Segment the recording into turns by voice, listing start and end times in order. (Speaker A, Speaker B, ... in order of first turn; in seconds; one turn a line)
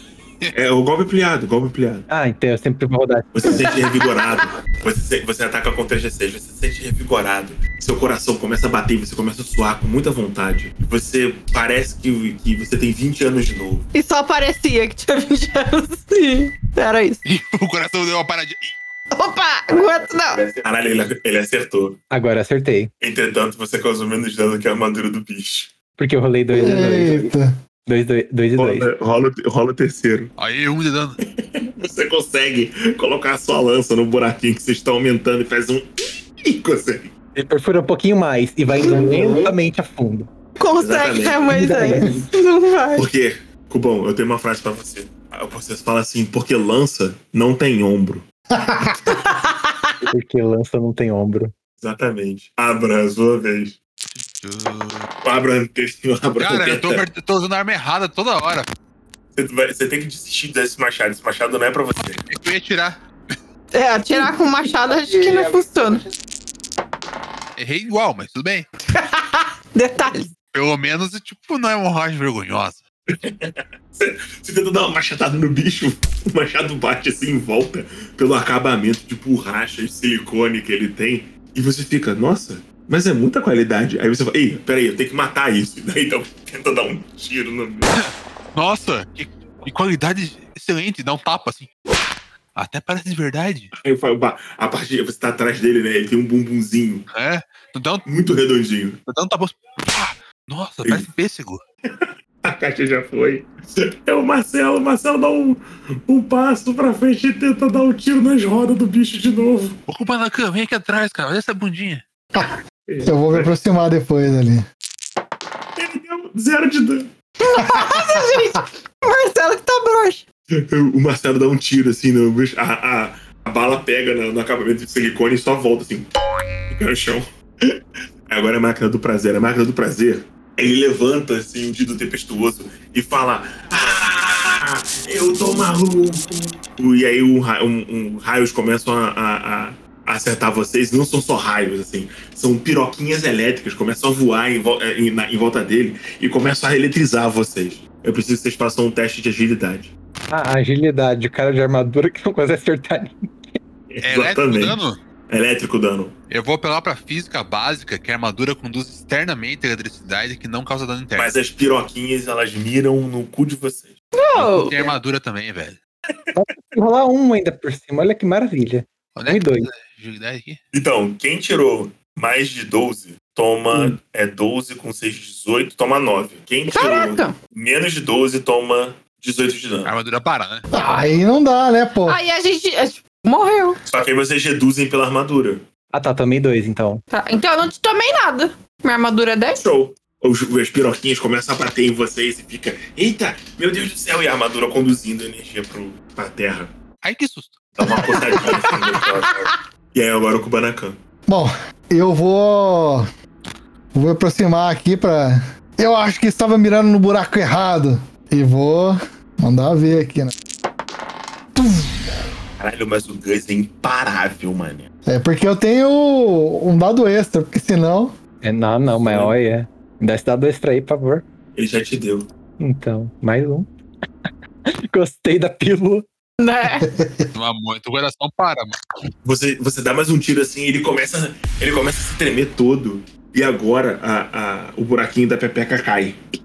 Speaker A: 0.5-2.0
Speaker B: 2.1-3.7
Speaker A: 3.3-13.9
Speaker C: 13.9-17.2
Speaker D: 17.2-18.8
Speaker C: 19.1-20.5
Speaker A: 20.5-22.0
Speaker B: 22.1-22.9
Speaker A: 23.0-25.7
Speaker B: 26.0-27.3
Speaker E: 26.5-27.5
Speaker B: 27.9-28.9
Speaker A: 28.6-30.3
Speaker D: 30.4-31.2
Speaker A: 31.4-37.1
Speaker B: 37.3-40.3
Speaker C: 40.6-43.1
Speaker A: 40.8-41.6
Speaker B: 41.5-42.2
Speaker A: 42.9-48.2
Speaker E: 48.5-49.1
Speaker C: 49.1-50.0
Speaker B: 50.1-51.5
Speaker A: 51.8-53.8
Speaker D: 54.1-55.1
Speaker A: 55.2-57.0
Speaker D: 56.4-58.7
Speaker A: 59.3-62.2
Speaker D: 62.2-63.0
Speaker C: 63.7-66.0
Speaker D: 67.5-68.7
Speaker C: 68.9-70.3
Speaker D: 70.5-72.8
Speaker A: 73.1-87.9
Speaker D: 87.9-91.7
Speaker D: 92.5-93.7
Speaker A: 93.8-97.1
Speaker D: 97.1-98.0
Speaker A: 98.0-99.0
Speaker D: 99.1-101.6
Speaker A: 101.9-109.8
Speaker D: 109.9-112.0
Speaker A: 112.9-113.5
Speaker E: 113.0-114.7
Speaker A: 115.8-117.1
Speaker C: 117.4-120.2
Speaker E: 117.7-118.2
Speaker A: 120.5-126.1
Speaker A: 126.7-149.9
Speaker B: 150.3-153.2
Speaker A: 153.9-154.8
Speaker D: 154.0-155.0
Speaker A: 155.3-156.1
Speaker D: 156.3-161.3
Speaker A: 161.2-163.9
Speaker C: 164.1-164.9
Speaker D: 164.3-165.8
Speaker B: 166.3-169.7
Speaker D: 169.1-170.6
Speaker A: 170.7-179.9
Speaker C: 176.7-177.4
Speaker D: 179.8-180.7
Speaker E: 180.7-182.2
Speaker C: 182.1-183.8
Speaker A: 183.8-185.6
Speaker B: 185.9-187.0
Speaker C: 187.1-189.6
Speaker A: 189.5-196.7
Speaker D: 197.0-197.7
Speaker A: 197.8-201.0
Speaker C: 198.7-199.0
Speaker E: 201.3-203.1
Speaker E: 203.9-210.3
Speaker E: 211.5-212.2
Speaker A: 212.6-214.9
Speaker E: 215.0-218.2
Speaker B: 218.4-221.2
Speaker A: 219.0-219.3
Speaker A: 221.5-222.3
Speaker B: 222.6-223.7
Speaker B: 224.9-226.1
Speaker C: 226.4-226.8
Speaker E: 226.8-227.3
Speaker D: 227.3-228.8
Speaker A: 229.2-236.2